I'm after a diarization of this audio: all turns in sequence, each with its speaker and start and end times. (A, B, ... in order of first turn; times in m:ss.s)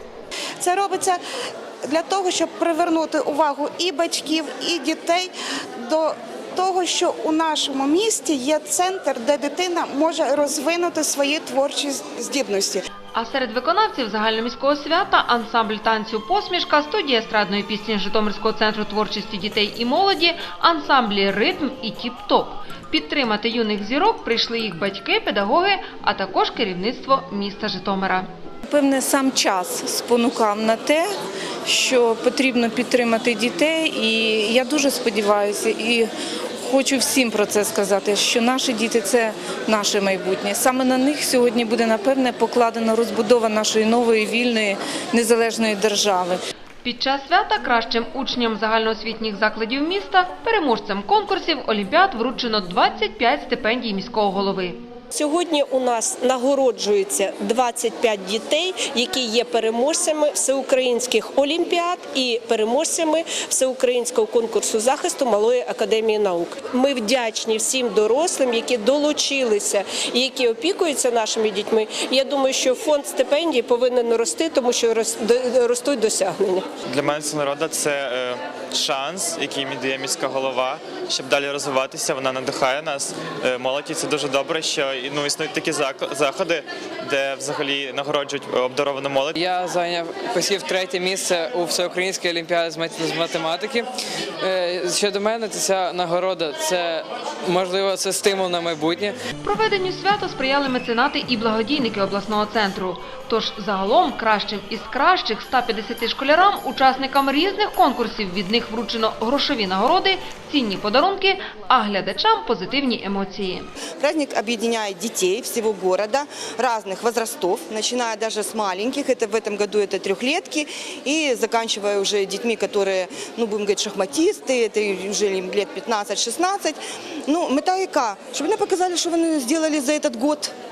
0:00.6-0:01.2 A
0:01.8-0:05.3 A
0:05.8-0:12.9 A
0:13.1-0:28.3 B
0:28.7-0:31.1 C
0:31.7-0:36.1 C
0:36.6-0:46.4 C
0:46.8-0:54.8 B
0:55.1-1:16.7 D
1:16.9-1:29.4 E
1:29.3-1:33.9 F
1:34.4-1:39.1 F
1:39.4-1:53.7 B
1:54.0-2:10.5 G